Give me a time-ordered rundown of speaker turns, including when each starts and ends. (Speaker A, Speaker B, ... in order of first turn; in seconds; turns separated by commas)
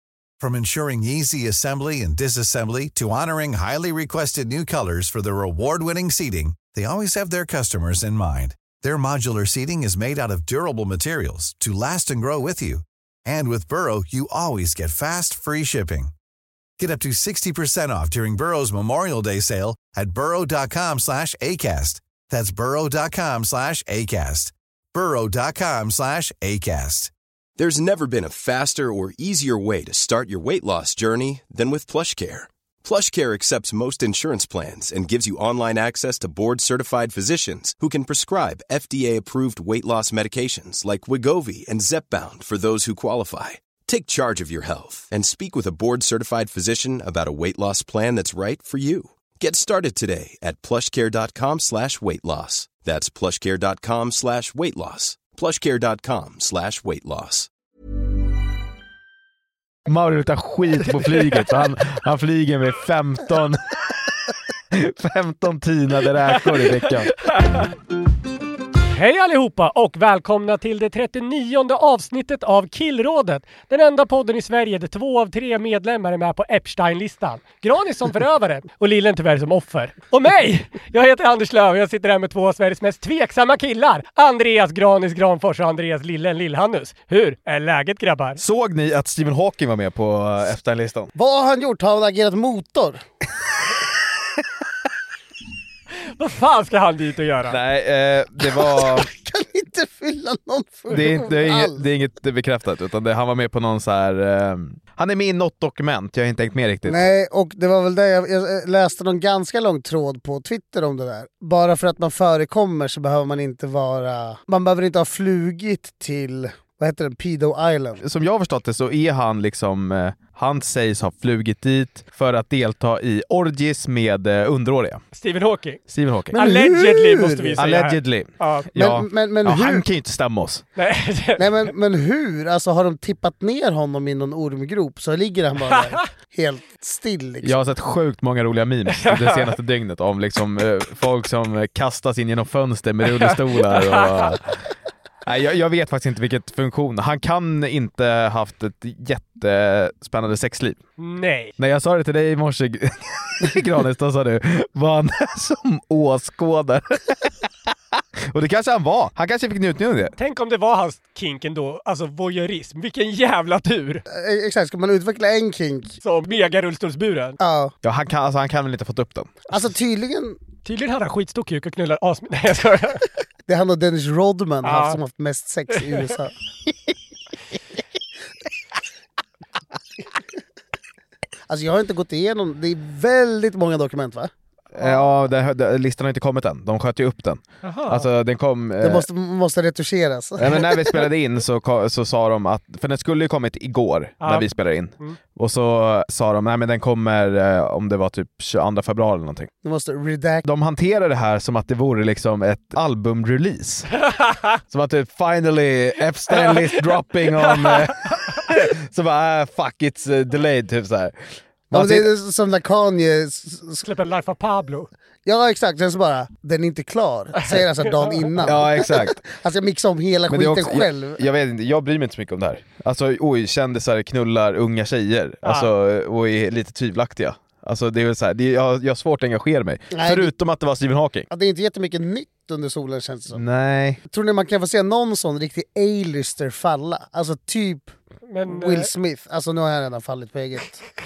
Speaker A: 0.4-16.1, Speaker A: 16.8-27.1, Speaker B: 27.6-57.5, Speaker C: 59.9-63.8, Speaker C: 64.7-67.2, Speaker D: 67.2-67.7, Speaker D: 68.9-88.4, Speaker C: 88.4-91.1, Speaker E: 91.2-93.0, Speaker D: 96.0-97.6, Speaker C: 97.5-99.1, Speaker E: 99.0-101.8, Speaker C: 100.9-107.1, Speaker E: 106.9-118.0, Speaker C: 118.0-125.0, Speaker D: 125.1-125.8, Speaker C: 125.9-126.4, Speaker E: 126.3-127.6, Speaker D: 126.3-128.7, Speaker C: 127.6-130.6, Speaker E: 128.8-129.8, Speaker D: 130.8-131.7, Speaker E: 131.4-137.6, Speaker D: 135.7-136.0, Speaker C: 137.4-144.5, Speaker D: 138.9-139.6, Speaker D: 143.2-144.3, Speaker C: 145.3-150.8, Speaker D: 151.0-151.6, Speaker C: 151.6-157.3, Speaker C: 158.3-160.2, Speaker D: 160.2-164.0, Speaker E: 164.1-166.0, Speaker D: 166.0-167.4, Speaker E: 167.4-167.7, Speaker C: 167.8-169.4, Speaker E: 169.5-170.4, Speaker D: 170.7-173.0, Speaker E: 173.5-176.3, Speaker D: 174.6-175.0, Speaker E: 181.5-184.3, Speaker C: 184.7-189.1, Speaker D: 187.6-188.1, Speaker E: 188.8-191.1, Speaker C: 190.4-199.5, Speaker D: 194.2-194.5, Speaker E: 199.6-200.5, Speaker C: 200.4-203.9, Speaker D: 204.1-204.6, Speaker C: 204.7-211.2, Speaker D: 206.3-206.8, Speaker D: 207.4-208.4, Speaker C: 211.7-212.1, Speaker E: 211.7-213.9, Speaker D: 213.8-214.9, Speaker E: 215.2-221.2, Speaker D: 217.4-218.3, Speaker C: 218.4-219.2, Speaker C: 220.3-231.3, Speaker D: 225.4-225.7, Speaker E: 229.9-230.3, Speaker E: 231.3-233.4, Speaker C: 233.3-234.0, Speaker E: 234.1-237.9, Speaker D: 238.3-238.9, Speaker E: 238.5-240.9